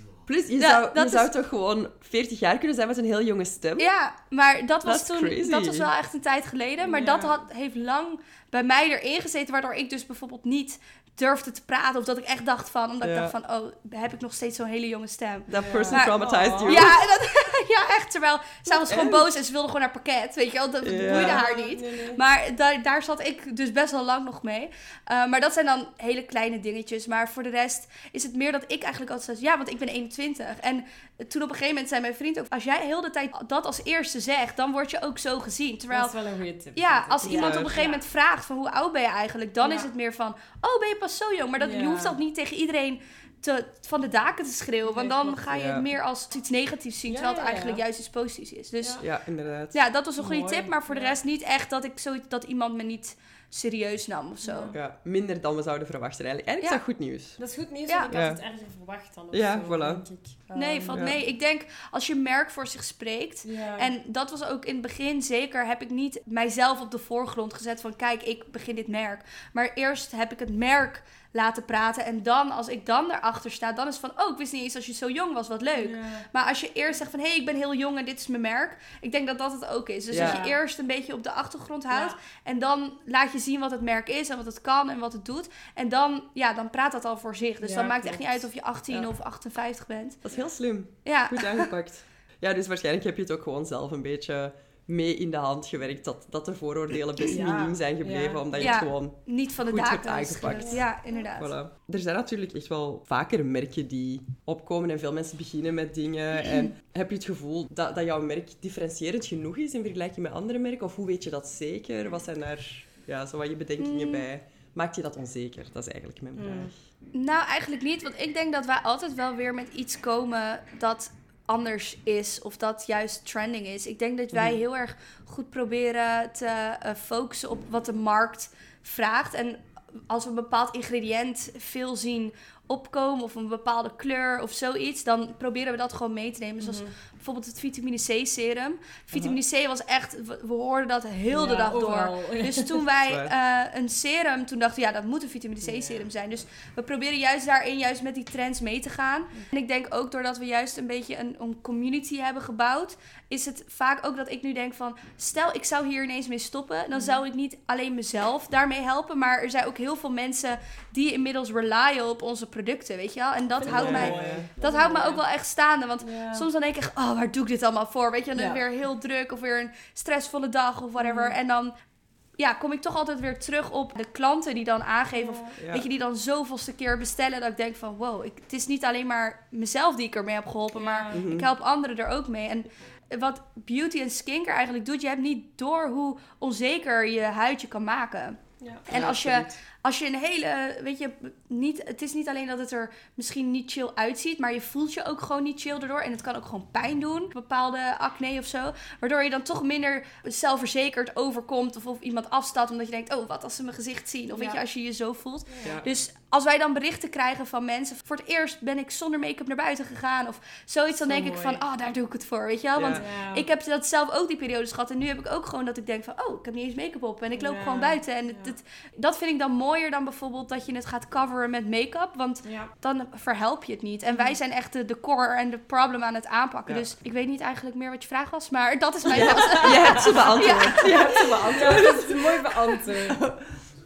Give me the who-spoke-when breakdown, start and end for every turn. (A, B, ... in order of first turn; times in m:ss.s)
0:00.3-0:03.9 A
0:00.6-0:01.3 B
0:03.8-0:36.2 B
0:04.8-0:05.9 A
0:06.8-0:07.4 C
0:13.0-0:13.3 A
0:15.5-0:17.0 A
0:15.6-0:17.0 C
0:18.7-0:19.3 A
0:20.8-0:21.4 A
0:21.0-0:22.2 C
0:35.9-0:38.0 C
0:36.8-0:49.0 B
0:37.2-0:37.8 A
0:39.6-0:39.9 C
0:41.6-0:42.2 C
0:44.8-0:45.5 C
0:45.5-0:45.9 A
0:47.1-0:47.8 C
0:49.0-0:49.8 A
0:49.7-0:54.7 B
0:50.2-0:51.2 C
0:54.4-0:54.8 C
0:54.7-0:57.4 A
0:57.4-1:01.3 C
0:58.1-0:58.4 A
0:59.3-1:00.0 A
1:00.6-1:30.2 B
1:00.9-1:01.2 A
1:03.4-1:03.9 C
1:15.8-1:16.3 C
1:20.1-1:20.4 A
1:20.1-1:20.6 C
1:21.9-1:22.2 C
1:27.6-1:28.5 C
1:30.2-1:56.8 A
1:31.0-1:31.7 B
1:37.3-1:38.9 C
1:38.6-1:41.5 B
1:40.5-1:40.8 C
1:53.8-1:54.3 B
1:56.4-1:56.7 C
1:57.1-2:51.7 B
2:04.3-2:04.6 A
2:16.6-2:16.9 C
2:19.1-2:19.4 A
2:21.3-2:22.9 C
2:23.1-2:23.3 A
2:25.6-2:26.1 C
2:36.9-2:37.2 C
2:43.6-2:45.2 C
2:43.6-2:44.5 A
2:46.0-2:46.5 C
2:48.4-2:48.6 C
2:51.0-2:51.4 C
2:52.4-3:51.9 B
2:55.2-2:55.6 C
2:55.6-2:55.9 A
3:00.8-3:01.3 C
3:01.1-3:01.5 A
3:08.9-3:09.6 A
3:24.3-3:24.6 C
3:25.5-3:25.9 C
3:31.0-3:31.6 C
3:32.8-3:33.0 A
3:32.9-3:33.5 C
3:37.4-3:38.6 C
3:42.4-3:42.7 C
3:44.1-3:44.4 C
3:49.0-3:53.2 C
3:49.5-3:52.2 A
3:53.1-3:53.6 A